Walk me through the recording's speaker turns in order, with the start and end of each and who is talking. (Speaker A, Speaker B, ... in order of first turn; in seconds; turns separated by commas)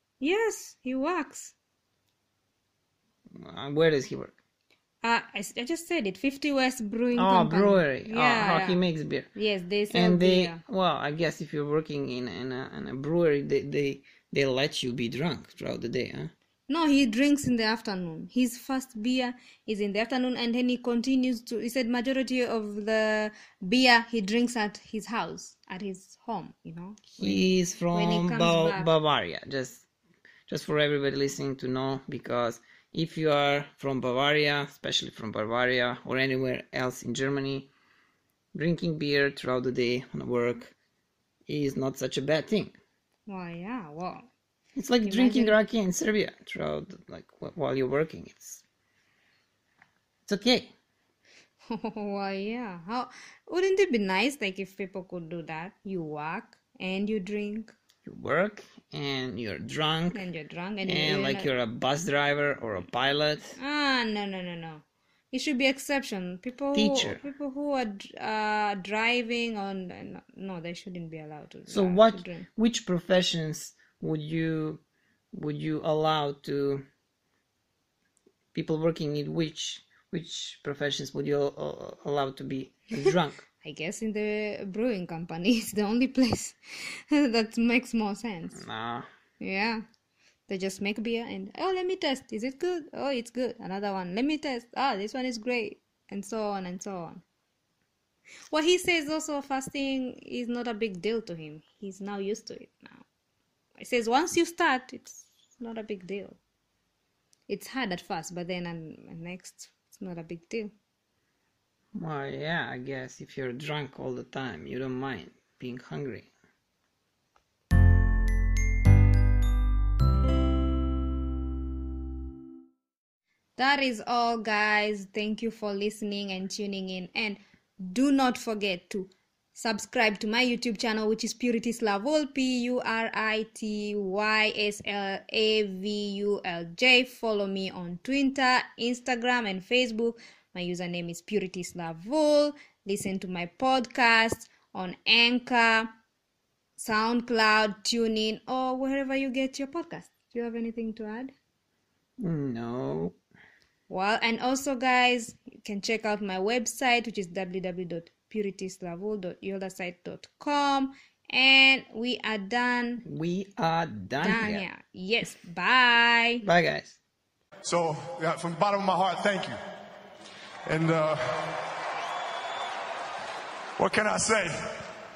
Speaker A: 0.2-1.6, Speaker B: 3.3-4.4, Speaker A: 5.0-8.8, Speaker B: 7.2-9.3, Speaker A: 9.3-10.6, Speaker B: 9.9-16.3, Speaker A: 16.7-28.9, Speaker B: 27.2-29.9, Speaker B: 30.5-37.7, Speaker B: 38.5-40.7, Speaker B: 41.5-42.8, Speaker A: 43.3-44.3, Speaker B: 44.8-48.6, Speaker A: 45.1-45.6, Speaker B: 50.3-50.7, Speaker A: 51.7-57.7, Speaker B: 58.1-60.2, Speaker A: 60.1-61.5, Speaker B: 60.9-63.6, Speaker A: 63.6-72.5, Speaker B: 66.7-67.2, Speaker B: 71.7-74.8, Speaker B: 75.3-76.8, Speaker B: 78.5-83.5, Speaker A: 83.6-88.6, Speaker B: 88.5-89.1, Speaker A: 89.4-89.8, Speaker A: 90.5-97.2, Speaker A: 98.5-103.0, Speaker A: 103.8-106.4, Speaker A: 107.5-110.7, Speaker B: 111.9-116.3, Speaker A: 123.6-145.9, Speaker A: 146.8-151.3, Speaker B: 152.2-153.2, Speaker A: 153.9-163.0, Speaker B: 163.0-164.7, Speaker A: 164.2-166.4, Speaker B: 166.4-167.0, Speaker C: 167.6-169.6, Speaker C: 170.7-171.5, Speaker C: 173.8-174.8